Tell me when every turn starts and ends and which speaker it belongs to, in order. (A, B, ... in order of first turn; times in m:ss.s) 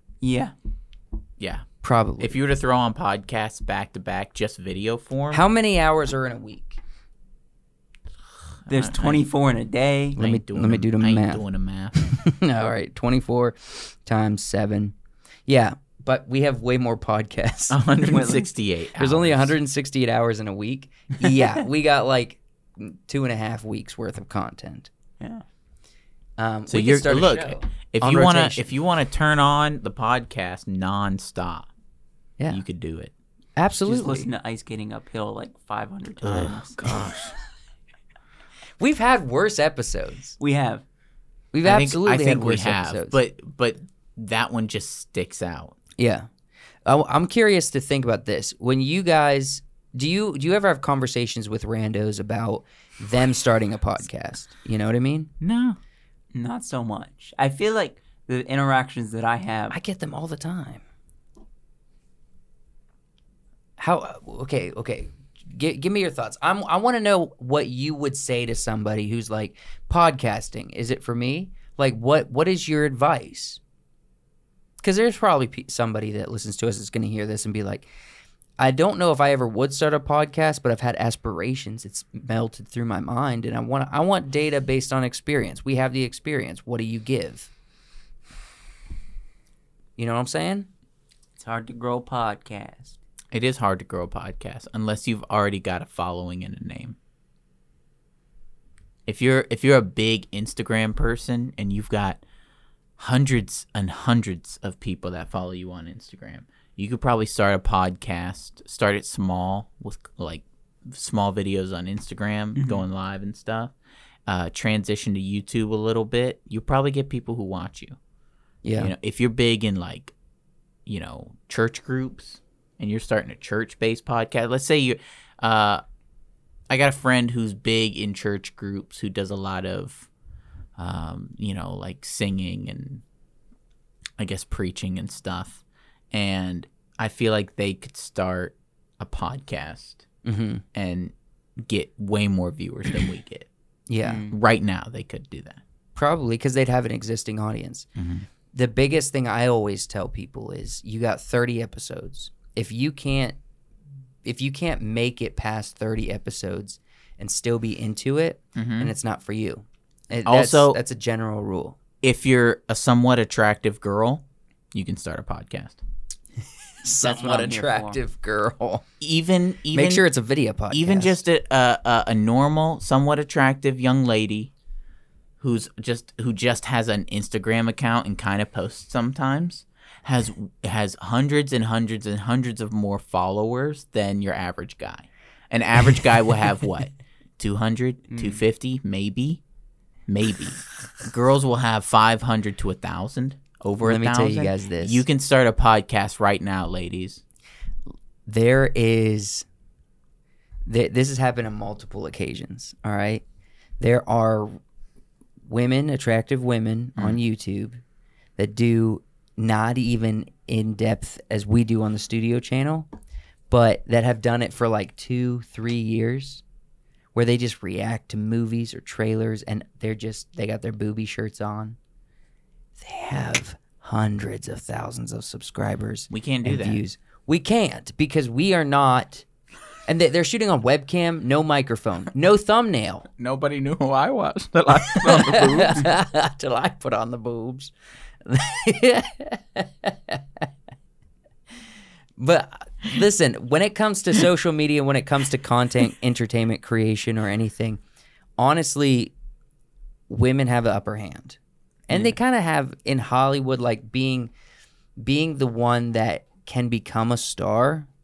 0:00.2-0:00.5 A
0:01.4-0:01.7 B
0:01.8-0:02.4 C
0:02.2-0:05.4 B
0:05.3-0:06.8 C
0:08.7-0:09.3 B
0:08.7-0:10.2 A
0:10.2-0:11.4 C
0:10.2-0:12.1 B
0:12.0-0:15.0 C
0:15.5-0:17.8 C
0:17.7-0:19.6 B
0:18.0-0:18.5 A
0:19.0-0:24.9 C
0:26.4-0:28.7 C
0:26.7-0:31.7 B
0:32.5-0:33.1 B
0:33.6-0:34.3 C
0:33.9-0:37.0 A
0:36.2-0:37.4 B
0:38.8-0:40.4 C
0:40.4-0:40.8 A
0:41.5-0:43.2 C
0:41.6-0:45.8 B
0:46.0-0:46.3 C
0:46.9-0:55.3 C
0:55.4-0:55.8 B
0:56.3-0:59.8 A
0:59.7-1:00.8 C
1:03.8-1:13.6 C
1:14.8-1:17.9 C
1:18.6-1:27.5 C
1:30.0-1:30.7 C
1:31.4-1:33.0 A
1:33.3-1:37.0 B
1:39.1-1:42.2 B
1:43.0-1:53.7 B
1:52.6-1:52.8 A
1:54.3-1:58.0 B
1:58.6-1:58.9 C
1:58.8-2:00.1 B
2:00.9-2:05.8 B
2:06.7-2:10.1 B
2:10.8-2:13.0 B
2:14.2-2:20.1 B
2:20.2-2:20.6 C
2:20.7-2:23.5 B
2:23.9-2:24.3 C
2:24.0-2:24.3 A
2:24.3-2:25.6 B
2:26.0-2:27.9 C
2:28.0-2:28.3 B
2:28.5-2:33.4 C
2:34.2-2:41.8 C
2:38.6-2:38.9 B
2:40.2-2:40.8 B
2:42.0-2:45.8 B
2:46.8-2:48.8 C
2:47.0-2:48.0 A
2:49.0-2:50.0 B
2:49.7-2:51.2 C
2:50.7-2:54.5 B
2:55.4-3:09.4 B
3:08.1-3:08.4 A
3:10.1-3:17.2 B
3:13.8-3:15.0 C
3:18.3-3:19.5 C
3:20.7-3:23.2 C
3:23.8-3:24.6 C
3:25.5-3:27.8 C
3:28.4-3:32.9 C
3:33.5-3:36.4 C
3:37.1-3:41.8 C
3:42.8-3:49.2 C
3:46.1-3:46.8 B
3:49.9-3:53.1 C
3:53.2-3:55.8 B
3:55.0-3:57.7 C
3:58.3-4:00.5 C
4:02.2-4:07.8 C
4:08.4-4:09.1 C
4:10.1-4:14.3 C
4:15.0-4:17.9 C